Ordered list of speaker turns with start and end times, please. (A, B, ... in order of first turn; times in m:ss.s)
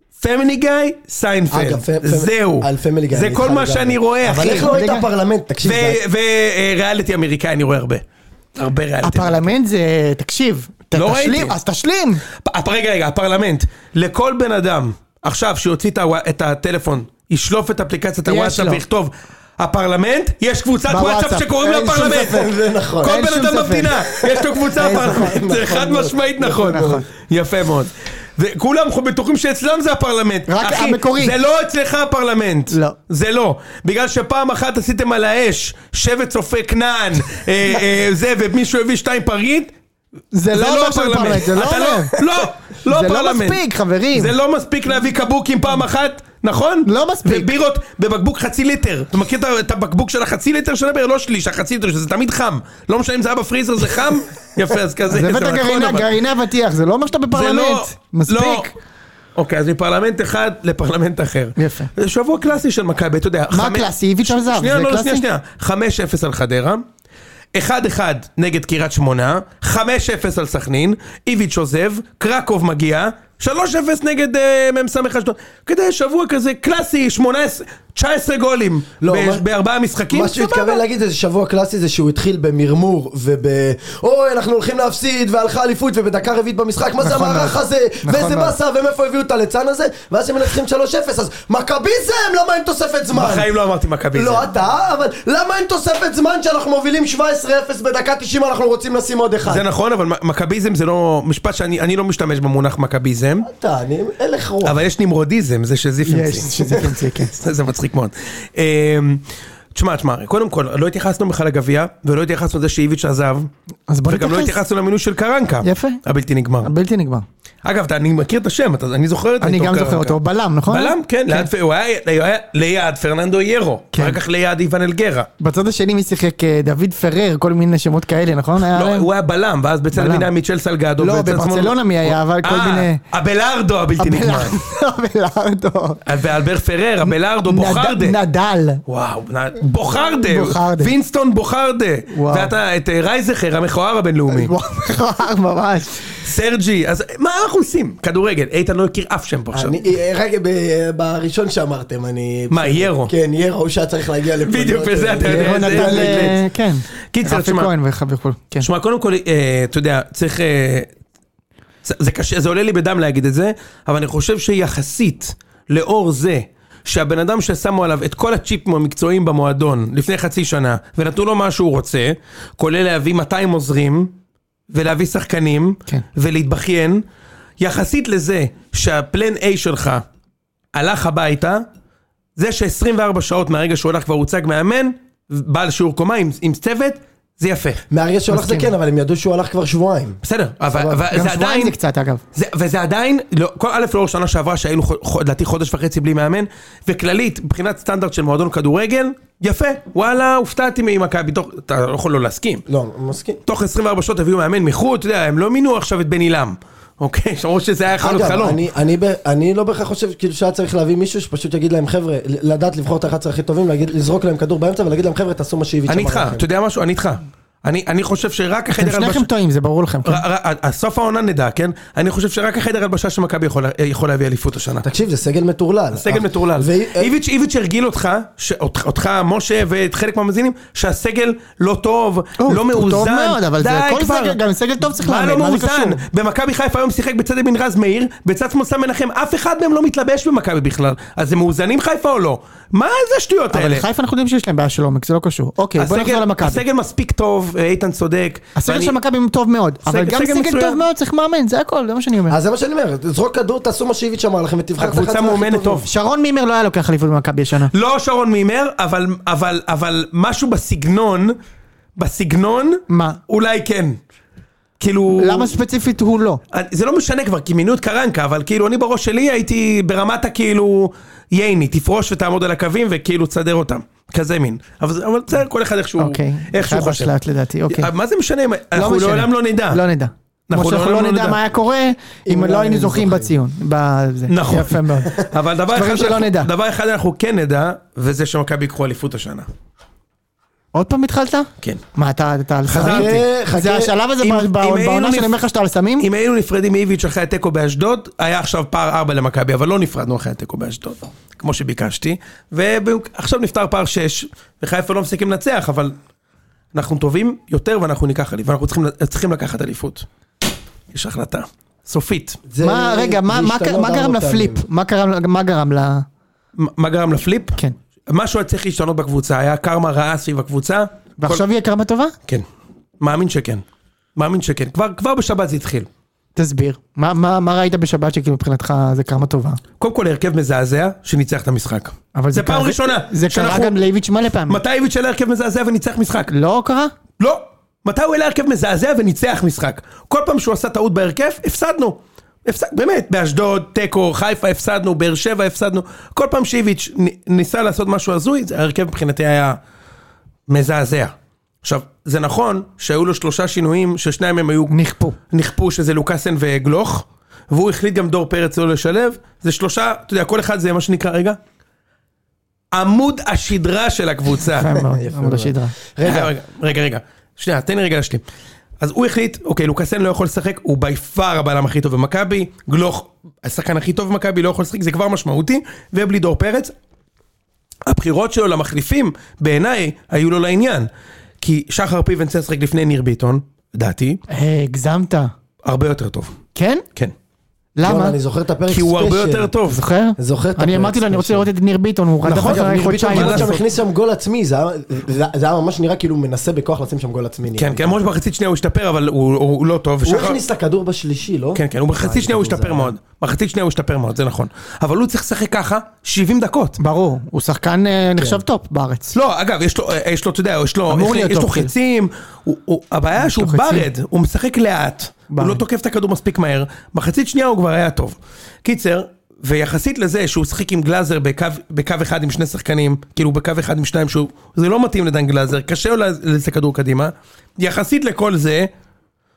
0:00.2-0:04.7 A
0:01.5-0:06.0 B
0:04.5-0:05.1 C
0:05.6-0:08.0 A
0:08.6-0:09.5 A
0:09.0-0:12.2 C
0:11.0-0:11.5 A
0:12.3-0:22.5 A
0:18.2-0:18.8 C
0:20.9-0:22.5 C
0:21.7-0:23.3 B
0:23.0-0:24.0 C
0:23.0-0:39.7 A
0:24.0-0:27.0 B
0:24.8-0:25.4 C
0:26.6-0:27.0 C
0:30.5-0:31.3 C
0:40.3-0:42.1 C
0:40.5-0:43.6 A
0:42.8-0:44.3 C
0:44.1-0:56.1 A
0:46.8-0:47.5 C
0:55.1-0:58.7 C
0:57.3-0:58.7 A
0:59.4-1:06.8 A
1:01.6-1:01.9 C
1:03.5-1:05.2 C
1:07.5-1:20.8 A
1:19.0-1:19.4 B
1:20.1-1:33.5 B
1:27.0-1:28.5 C
1:33.1-1:34.4 A
1:34.1-1:39.6 B
1:39.4-1:43.5 A
1:43.4-1:44.8 B
1:44.6-1:53.5 A
1:46.0-1:47.3 C
1:53.9-1:54.6 C
1:54.1-1:56.7 A
1:55.6-1:56.0 C
1:56.6-1:57.2 C
1:57.6-2:00.2 A
1:59.4-2:01.5 C
2:00.7-2:05.3 A
2:03.9-2:04.2 C
2:05.4-2:09.1 C
2:08.7-2:14.6 A
2:09.9-2:10.3 C
2:11.0-2:13.0 C
2:14.0-2:16.0 C
2:16.0-2:18.2 A
2:17.1-2:18.8 C
2:18.9-2:24.5 A
2:20.1-2:20.9 C
2:22.1-2:22.5 C
2:24.3-2:26.1 C
2:26.1-2:29.8 A
2:29.5-2:36.4 B
2:32.5-2:33.1 A
2:34.4-2:36.4 A
2:35.2-2:38.7 C
2:37.1-2:37.7 A
2:38.6-2:40.9 A
2:41.8-2:54.1 A
2:54.7-2:57.0 A
2:57.6-3:00.0 A
3:00.7-3:01.6 A
3:02.4-3:07.8 A
3:07.9-3:10.2 B
3:08.3-3:08.7 C
3:10.2-3:11.7 A
3:10.7-3:11.0 B
3:11.1-3:12.2 C
3:12.3-3:22.6 A
3:22.7-3:23.4 B
3:23.4-3:28.6 A
3:28.0-3:36.4 B
3:35.9-3:39.3 A
3:38.8-3:40.2 C
3:40.0-3:44.8 A
3:44.8-3:47.1 B
3:45.9-4:03.8 A
3:52.4-3:56.0 C
4:03.5-4:06.6 C
4:05.8-4:09.0 A
4:08.6-4:12.4 C
4:09.8-4:10.8 A
4:12.3-4:15.8 B
4:14.8-4:15.9 A
4:15.8-4:17.7 C
4:17.7-4:21.4 A
4:22.0-4:24.0 A
4:22.9-4:23.2 C
4:24.8-4:25.5 A
4:25.2-4:26.4 C
4:26.5-4:37.1 A
4:36.0-4:37.9 C
4:37.7-4:39.8 A
4:38.7-4:46.5 C
4:40.5-4:41.4 A
4:42.2-4:43.3 B
4:44.3-4:49.5 A
4:50.7-4:56.1 C
4:52.7-4:53.2 A
4:52.8-4:53.9 B
4:54.2-4:55.4 A
4:56.0-5:05.9 A
5:06.7-5:10.0 A
5:10.9-5:12.4 A
5:12.5-5:14.6 B
5:12.6-5:16.0 C
5:16.6-5:21.4 A
5:21.2-5:22.1 C
5:23.0-5:23.6 A
5:24.2-5:25.9 A
5:26.4-5:29.6 C
5:29.8-5:33.8 A
5:32.1-5:34.6 C
5:34.5-5:36.3 A
5:36.3-5:36.9 C
5:37.2-5:49.6 A
5:50.5-5:54.7 A
5:54.7-5:55.2 C
5:55.3-6:01.4 A
6:02.7-6:04.7 A
6:04.4-6:05.7 C
6:04.8-6:06.3 B
6:06.0-6:08.2 A
6:08.8-6:16.7 A
6:17.8-6:20.9 A
6:21.4-6:24.2 A
6:24.3-6:25.3 C
6:25.6-6:26.4 A
6:26.5-6:26.8 C
6:27.8-6:28.2 C
6:27.8-6:29.5 B
6:28.7-6:29.8 A
6:29.7-6:33.6 C
6:30.2-6:31.5 B
6:32.3-6:38.0 B
6:32.3-6:33.6 A
6:37.6-6:40.4 A
6:40.0-6:42.9 B
6:41.5-6:46.8 A
6:46.8-6:49.1 C
6:49.1-7:08.7 A
6:50.9-6:51.7 C
6:53.2-6:53.9 C
6:55.3-6:55.6 C